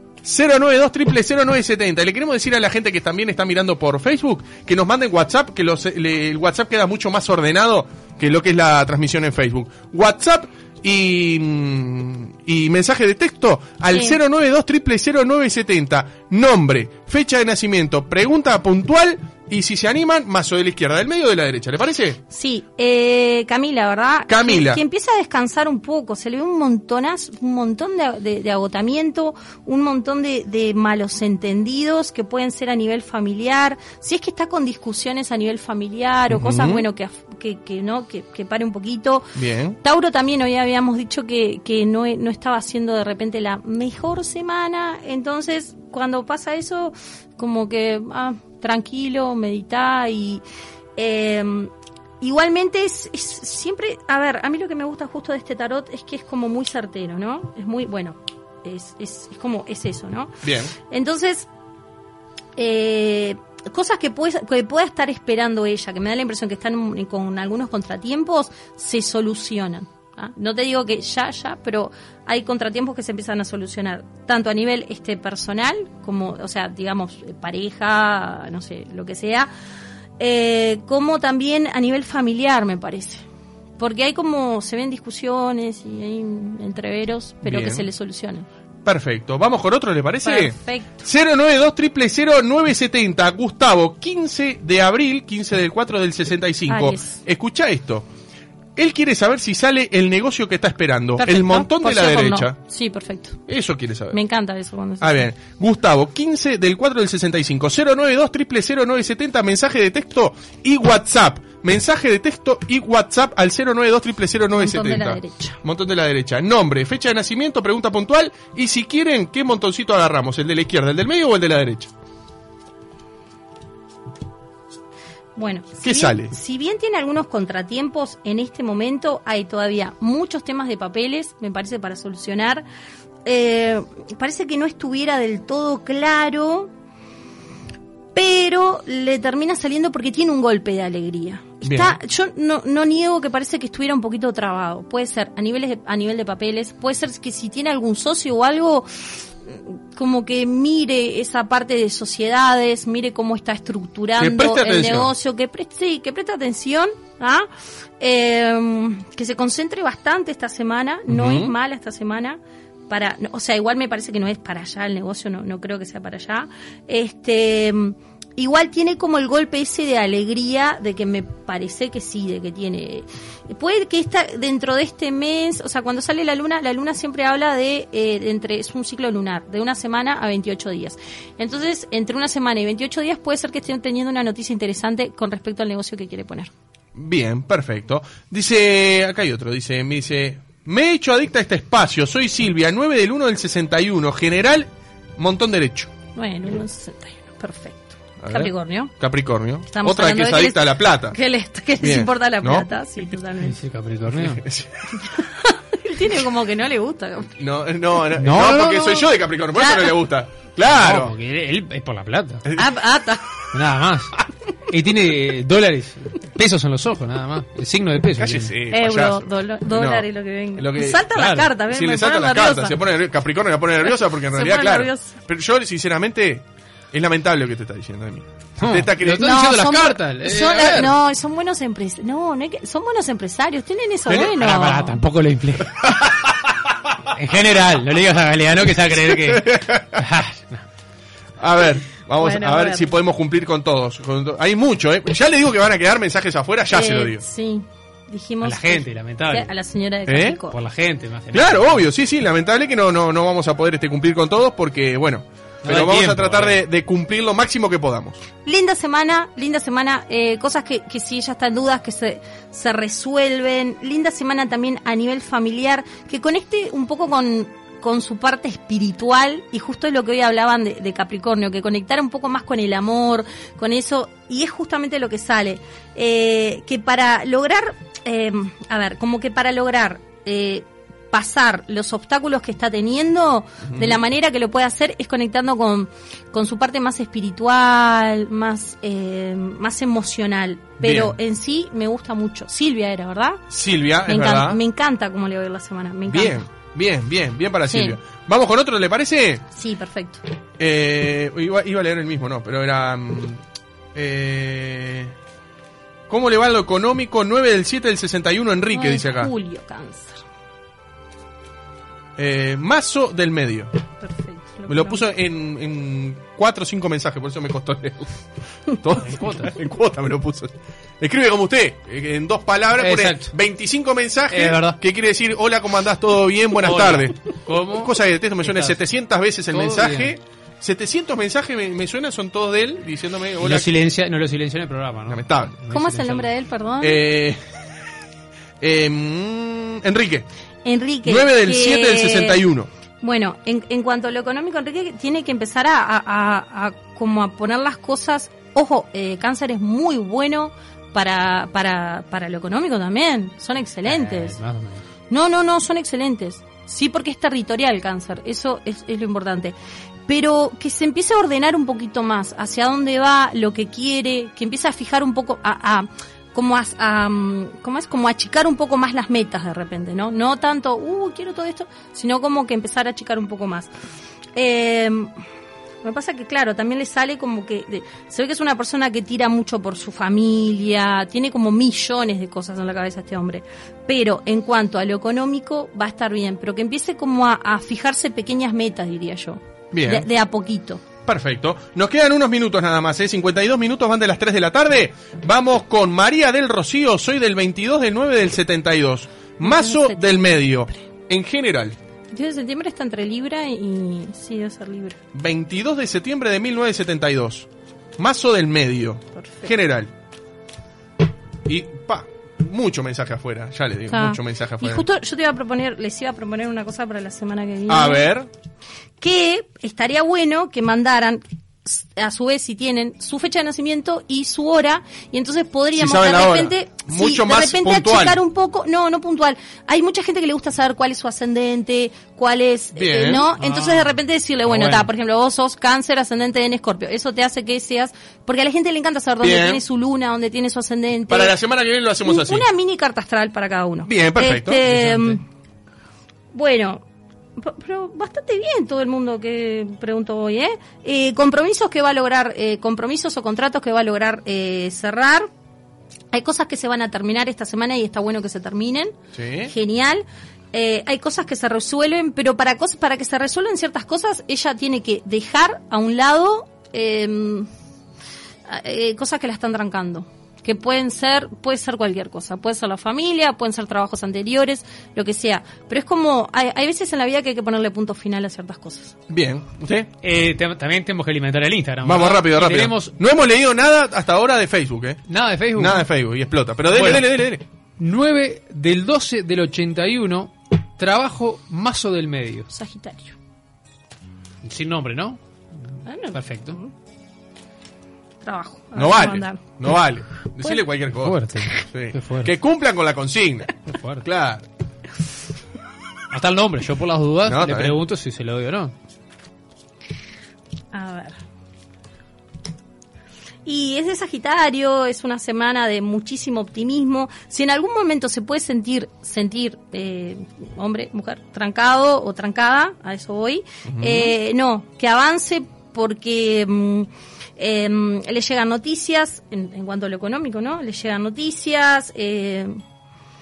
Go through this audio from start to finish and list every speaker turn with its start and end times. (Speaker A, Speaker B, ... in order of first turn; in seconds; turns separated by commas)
Speaker A: 0.2-22.2, Speaker B: 13.9-14.2, Speaker B: 22.3-50.4, Speaker A: 24.3-24.8, Speaker A: 36.3-36.8, Speaker A: 39.4-39.8, Speaker B: 51.0-61.5, Speaker A: 60.4-60.7, Speaker B: 62.6-79.5, Speaker B: 80.2-83.2, Speaker B: 83.8-88.5, Speaker A: 87.4-87.9, Speaker A: 88.8-98.1, Speaker B: 90.2-91.0, Speaker B: 96.7-97.2, Speaker A: 98.8-102.6, Speaker B: 101.2-103.4, Speaker A: 103.5-104.2, Speaker B: 104.1-105.2, Speaker A: 105.0-121.9, Speaker B: 114.6-115.6, Speaker B: 125.4-132.7, Speaker A: 125.8-126.3, Speaker B: 133.2-136.7, Speaker B: 138.2-157.5, Speaker A: 141.6-142.0, Speaker A: 154.2-155.1, Speaker B: 158.0-186.5, Speaker A: 161.1-161.5, Speaker A: 186.9-195.9, Speaker B: 196.2-198.9, Speaker A: 198.2-201.2, Speaker B: 199.7-203.6, Speaker A: 201.8-202.7, Speaker C: 203.4-204.4, Speaker A: 204.2-204.8, Speaker B: 205.0-207.4, Speaker A: 207.4-211.1, Speaker C: 208.2-209.0, Speaker B: 208.9-210.0, Speaker C: 210.7-212.5, Speaker A: 212.5-212.7, Speaker B: 212.6-213.3, Speaker C: 213.5-218.6, Speaker A: 218.2-221.1, Speaker B: 218.7-222.8, Speaker C: 221.1-221.5, Speaker A: 221.7-229.8, Speaker B: 223.8-225.2, Speaker C: 228.6-230.9, Speaker B: 229.2-235.0, Speaker C: 234.1-236.0, Speaker A: 235.8-236.3, Speaker C: 237.1-240.6, Speaker A: 239.0-240.0, Speaker A: 241.4-247.2, Speaker B: 242.2-242.9, Speaker B: 246.7-250.6, Speaker C: 248.4-249.5, Speaker A: 250.1-250.4, Speaker C: 250.5-251.8, Speaker A: 251.3-258.2, Speaker C: 255.6-256.6, Speaker B: 258.4-293.4, Speaker A: 283.7-284.0, Speaker A: 290.8-291.1, Speaker A: 293.5-294.6, Speaker B: 294.1-296.4, Speaker A: 296.1-299.4, Speaker B: 297.7-298.0, Speaker B: 299.5-300.2, Speaker A: 300.6-303.4, Speaker A: 303.9-305.1, Speaker A: 306.1-309.3, Speaker B: 308.7-310.2, Speaker A: 312.2-313.7, Speaker B: 314.0-315.0, Speaker A: 314.7-318.1, Speaker A: 318.7-327.2, Speaker C: 319.0-319.5, Speaker C: 322.8-323.3, Speaker C: 324.3-324.8, Speaker C: 326.6-328.8, Speaker A: 327.7-333.7, Speaker C: 329.5-330.1, Speaker C: 333.4-336.3, Speaker A: 335.1-335.5, Speaker B: 335.7-337.0, Speaker A: 336.8-337.4, Speaker A: 338.6-340.3, Speaker B: 340.6-342.4, Speaker A: 341.1-342.7, Speaker B: 343.0-354.4, Speaker C: 353.9-354.8, Speaker B: 355.1-359.6, Speaker B: 360.1-373.7, Speaker B: 374.4-375.1, Speaker B: 375.8-390.8, Speaker A: 389.7-390.1, Speaker A: 391.1-401.8, Speaker B: 399.4-400.4, Speaker B: 402.1-405.0, Speaker A: 405.1-407.5, Speaker A: 408.0-409.9, Speaker B: 409.2-409.5, Speaker A: 411.4-414.9, Speaker B: 413.9-418.1, Speaker A: 417.7-418.3, Speaker B: 419.0-441.4, Speaker A: 425.8-428.2, Speaker A: 432.8-433.3, Speaker C: 433.4-433.9, Speaker A: 434.5-434.9, Speaker A: 439.2-439.6, Speaker A: 441.1-442.5, Speaker B: 442.0-445.2, Speaker A: 443.9-444.6, Speaker C: 444.7-445.2, Speaker B: 446.3-446.8, Speaker B: 447.4-455.3, Speaker B: 456.1-459.0, Speaker A: 459.1-459.5, Speaker B: 459.5-467.5, Speaker B: 468.5-479.0, Speaker A: 479.1-479.9, Speaker C: 480.0-482.9, Speaker A: 481.8-485.0, Speaker C: 485.1-485.9, Speaker A: 485.6-487.4, Speaker C: 486.7-487.1, Speaker C: 487.8-492.5, Speaker B: 492.5-493.1, Speaker C: 494.4-495.2, Speaker B: 495.9-496.7, Speaker C: 496.1-496.6, Speaker B: 498.2-499.4, Speaker A: 498.8-504.4, Speaker C: 501.0-502.3, Speaker C: 503.7-504.1, Speaker C: 506.1-508.7, Speaker A: 507.3-507.8, Speaker B: 510.7-511.2, Speaker B: 513.5-532.6, Speaker A: 523.7-524.1